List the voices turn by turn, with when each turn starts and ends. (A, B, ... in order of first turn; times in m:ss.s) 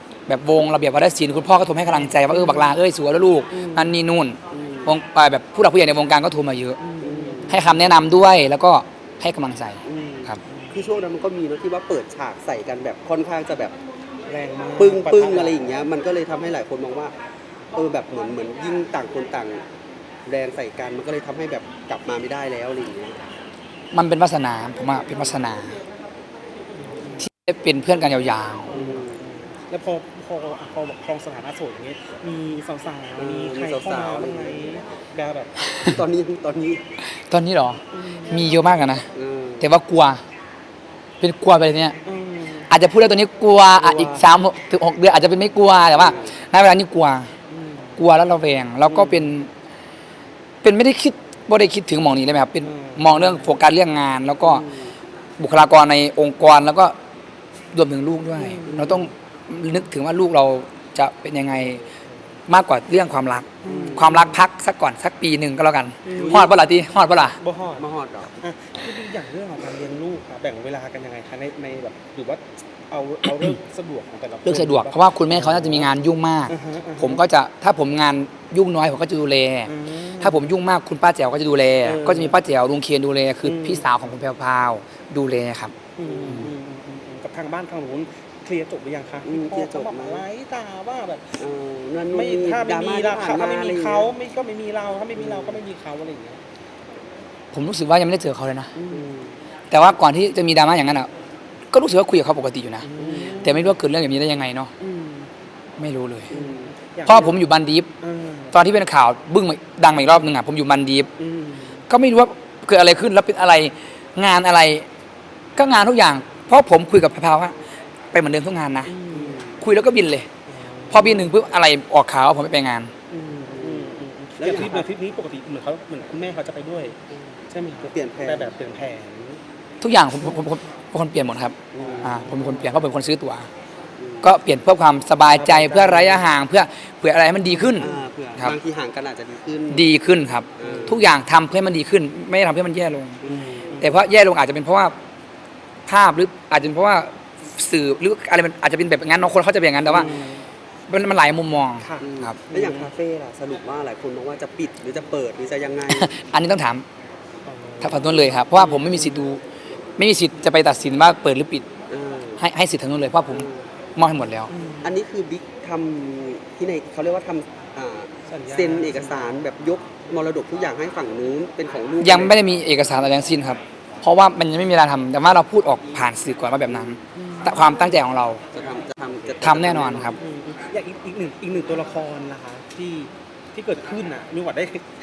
0:00.3-0:06.8 A
0:01.9-0:02.8 B
0:03.5-0:03.9 B
0:04.5-0:05.0 C
0:06.8-0:07.8 B
0:07.0-0:07.6 C
0:07.5-0:10.4 A
0:09.8-0:13.7 C
0:14.3-0:15.6 B
0:14.8-0:17.1 C
0:17.7-0:19.6 C
0:20.2-0:23.2 C
0:23.9-0:25.8 A
0:27.2-0:28.7 A
0:28.7-0:29.2 C
0:28.7-0:35.6 B
0:33.2-0:34.6 C
0:35.8-0:36.8 C
0:37.3-0:39.1 A
0:37.9-0:38.8 B
0:39.1-0:39.7 C
0:39.6-0:40.2 A
0:41.2-0:42.0 A
0:42.0-0:42.7 B
0:42.7-0:47.3 A
0:43.8-0:44.1 C
0:46.0-0:46.3 C
0:47.5-0:48.0 B
0:48.0-0:49.5 A
0:50.6-0:54.6 A
0:52.6-0:53.6 B
0:54.4-0:54.9 C
0:55.4-0:56.9 A
0:57.7-1:01.8 A
0:58.3-0:59.0 B
0:58.7-0:59.0 C
1:02.5-1:07.4 A
1:03.6-1:04.4 B
1:03.6-1:04.3 C
1:06.0-1:06.5 B
1:06.1-1:06.5 C
1:07.4-1:07.8 B
1:07.8-1:08.4 C
1:08.4-1:14.9 B
1:14.4-1:25.7 A
1:15.3-1:15.8 C
1:15.5-1:15.7 B
1:16.5-1:17.2 B
1:19.6-1:20.5 B
1:21.8-1:22.4 B
1:23.4-1:23.9 B
1:26.0-1:31.4 B
1:26.0-1:26.5 C
1:29.2-1:30.2 C
1:31.4-1:34.1 C
1:32.1-1:36.4 B
1:35.2-1:35.6 C
1:37.5-1:38.7 A
1:38.8-1:39.1 B
1:38.9-1:39.3 C
1:39.7-1:41.1 A
1:41.7-1:42.9 A
1:42.8-1:43.7 B
1:43.0-1:43.5 C
1:43.4-1:44.7 A
1:44.8-1:45.3 B
1:45.8-1:46.3 A
1:46.3-1:46.7 C
1:46.3-1:47.4 B
1:47.0-1:47.9 A
1:48.0-1:48.5 B
1:48.5-1:51.1 A
1:51.2-1:51.8 B
1:51.9-1:54.8 A
1:55.6-1:57.5 A
1:58.1-1:58.9 A
1:58.9-1:59.4 B
1:59.1-1:59.5 C
1:59.6-2:00.3 A
2:00.5-2:01.3 B
2:00.9-2:02.9 A
2:03.1-2:07.0 B
2:03.5-2:04.9 C
2:07.5-2:09.4 B
2:07.9-2:08.5 C
2:09.8-2:13.5 A
2:11.7-2:12.3 C
2:11.8-2:12.7 B
2:14.0-2:14.3 C
2:14.2-2:17.9 A
2:15.3-2:16.1 B
2:17.5-2:18.0 B
2:17.8-2:19.8 C
2:19.7-2:23.2 A
2:20.6-2:21.0 C
2:23.2-2:23.8 C
2:23.3-2:23.9 B
2:23.8-2:24.9 A
2:25.8-2:30.2 A
2:29.9-2:30.4 B
2:29.9-2:30.2 C
2:30.9-2:32.4 A
2:31.8-2:32.9 B
2:32.0-2:36.1 C
2:35.9-2:36.8 A
2:37.4-2:39.2 B
2:37.8-2:39.4 A
2:40.0-2:41.7 A
2:41.9-2:42.4 C
2:42.4-2:44.5 A
2:43.3-2:43.6 C
2:44.5-2:44.9 B
2:44.8-2:52.4 C
2:48.3-2:49.3 B
2:52.0-2:58.4 A
2:56.7-2:57.0 C
2:57.1-2:57.8 B
2:58.5-3:00.2 C
2:59.4-3:00.2 A
3:00.2-3:04.8 B